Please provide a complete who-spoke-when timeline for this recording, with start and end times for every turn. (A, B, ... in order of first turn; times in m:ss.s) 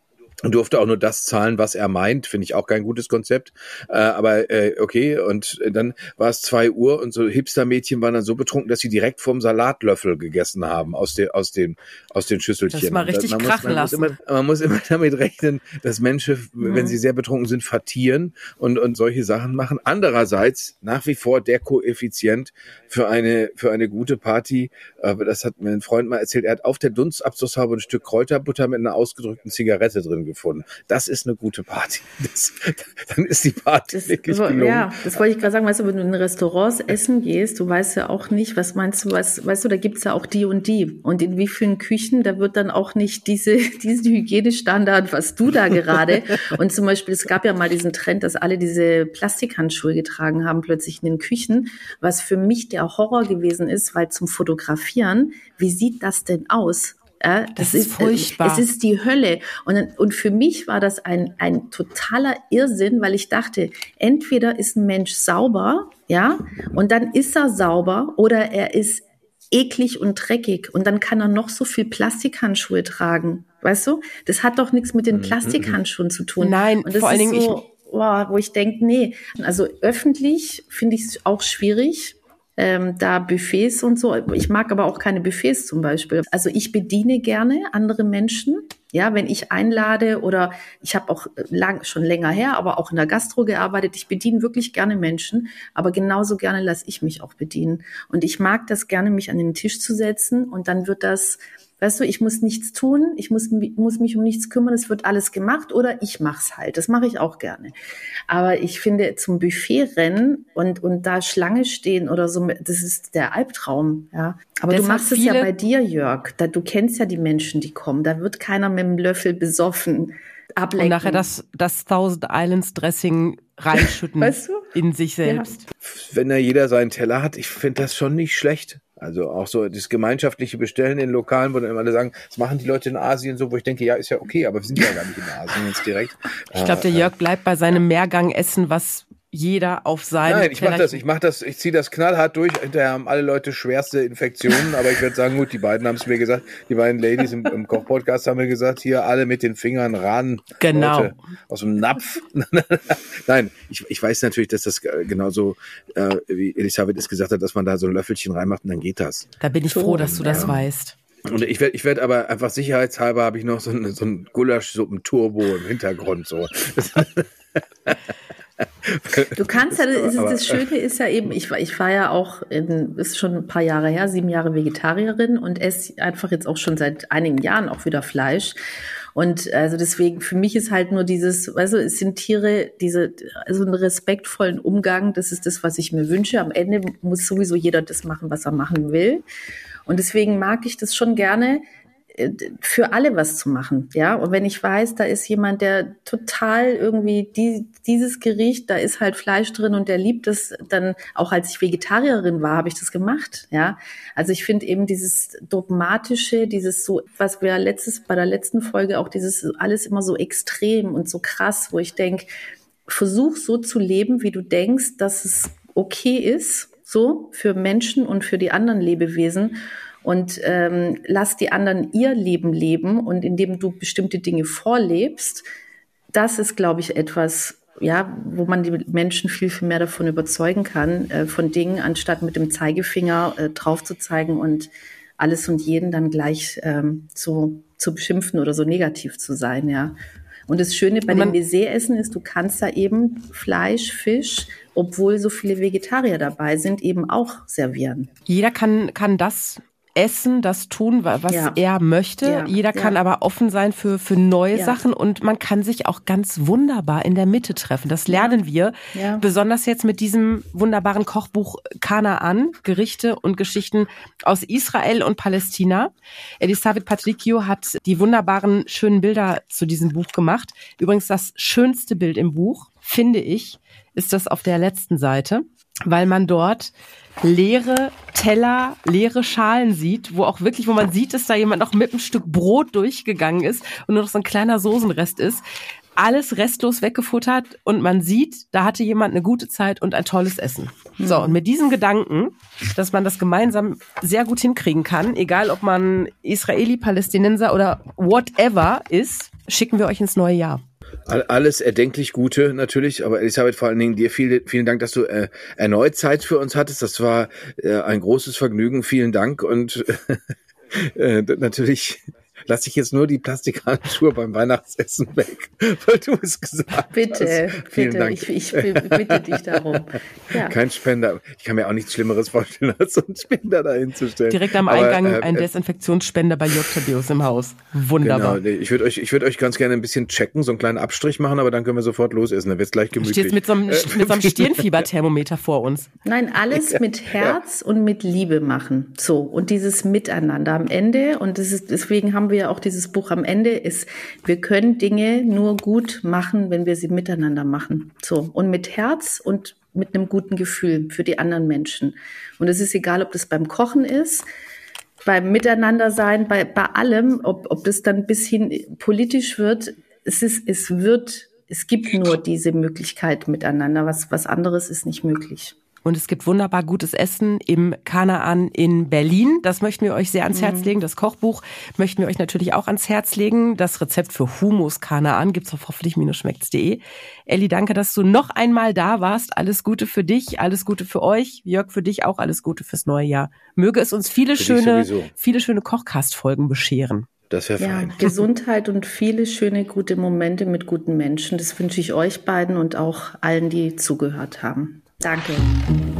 0:00.4-0:35.2 A
0:12.7-0:14.1 B
0:16.6-0:17.0 C
0:33.9-1:47.7 C
0:57.6-0:58.7 B
1:15.1-1:15.8 A
1:16.4-1:17.6 B
1:48.3-2:01.2 C
1:54.7-1:55.5 B
2:00.8-2:05.6 B
2:03.7-2:04.7 C
2:05.2-2:05.5 C
2:05.8-2:17.1 A
2:16.5-2:21.0 B
2:20.2-2:39.3 A
2:30.6-2:31.2 B
2:39.4-2:41.0 B
2:39.7-2:40.6 C
2:40.0-2:40.5 A
2:41.2-2:48.0 A
2:48.6-2:50.7 A
2:49.3-2:58.6 C
2:59.1-3:09.2 C
3:09.8-3:32.3 C
3:32.9-3:45.4 C
3:46.1-4:00.0 C
4:00.5-4:08.1 C
4:01.1-4:01.4 B
4:08.3-4:45.4 B
4:11.3-4:11.6 C
4:12.2-4:13.0 C
4:14.5-4:14.8 C
4:18.1-4:18.4 C
4:18.9-4:19.2 C
4:46.0-5:00.6 B
4:51.0-4:51.4 C
5:01.1-5:19.8 A
5:16.9-5:20.6 C
5:20.3-5:25.5 A
5:24.3-5:28.4 B
5:28.0-5:34.8 A
5:33.0-5:35.9 B
5:36.0-5:54.2 C
5:36.5-5:37.4 A
5:55.0-6:05.6 C
6:05.8-6:27.1 B
6:10.3-6:10.7 C
6:24.3-6:25.1 A
6:27.3-6:28.1 A
6:27.6-6:35.5 C